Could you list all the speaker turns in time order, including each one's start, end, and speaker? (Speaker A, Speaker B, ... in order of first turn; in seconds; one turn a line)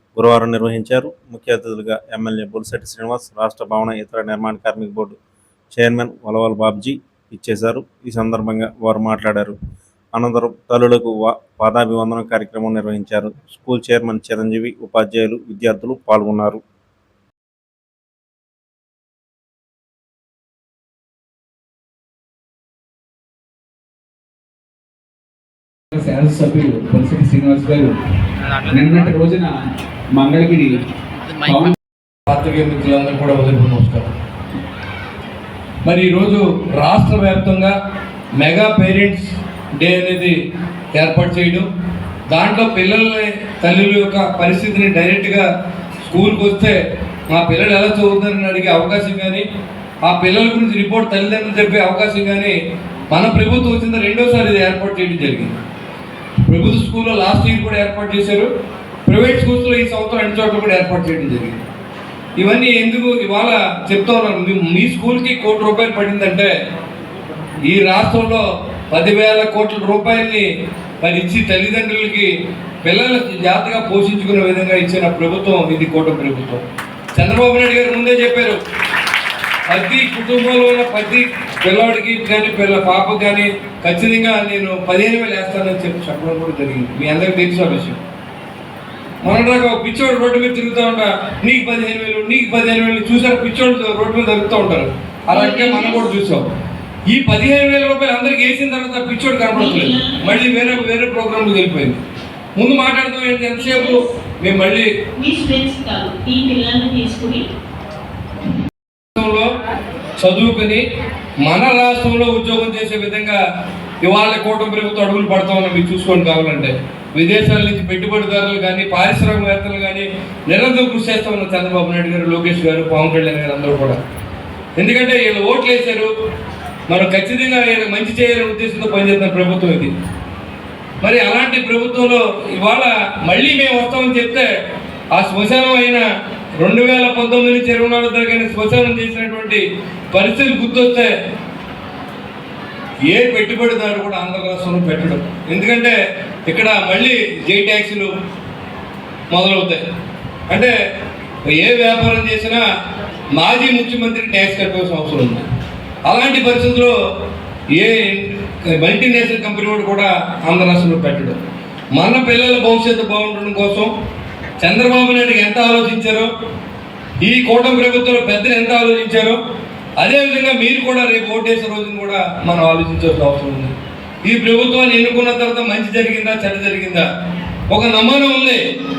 Speaker A: 0.1-5.2
Speaker A: 5.7-9.6
Speaker A: 10.1-16.6
Speaker B: 25.9-27.9
Speaker B: 28.7-30.8
Speaker B: 31.4-31.8
Speaker C: 32.3-34.1
Speaker C: 35.8-37.7
Speaker C: 38.4-40.4
Speaker C: 41.0-41.7
Speaker C: 42.3-45.5
Speaker C: 46.0-46.8
Speaker C: 47.3-49.4
Speaker C: 50.0-52.5
Speaker C: 53.1-55.6
Speaker C: 56.4-58.5
Speaker C: 59.0-61.6
Speaker C: 62.4-66.5
Speaker C: 67.6-70.5
Speaker C: 71.0-72.3
Speaker C: 72.8-76.6
Speaker C: 77.1-78.6
Speaker C: 79.7-88.0
Speaker C: 89.2-96.5
Speaker D: 95.3-96.0
Speaker C: 97.1-102.0
Speaker D: 99.5-100.3
Speaker C: 102.6-104.9
Speaker D: 103.6-104.1
Speaker D: 105.2-107.5
Speaker C: 109.2-109.5
Speaker C: 110.2-110.8
Speaker C: 111.4-113.4
Speaker C: 114.0-124.0
Speaker C: 124.8-126.1
Speaker C: 126.9-129.9
Speaker C: 131.0-134.5
Speaker C: 135.1-136.0
Speaker C: 136.6-141.1
Speaker C: 143.1-145.9
Speaker C: 146.5-148.1
Speaker C: 149.3-149.8
Speaker C: 151.5-152.6
Speaker C: 153.3-155.4
Speaker C: 156.1-156.9
Speaker C: 157.7-161.4
Speaker C: 161.9-163.9
Speaker C: 164.6-166.3
Speaker C: 167.2-169.4
Speaker C: 170.0-173.7
Speaker C: 174.2-177.1
Speaker C: 177.7-178.6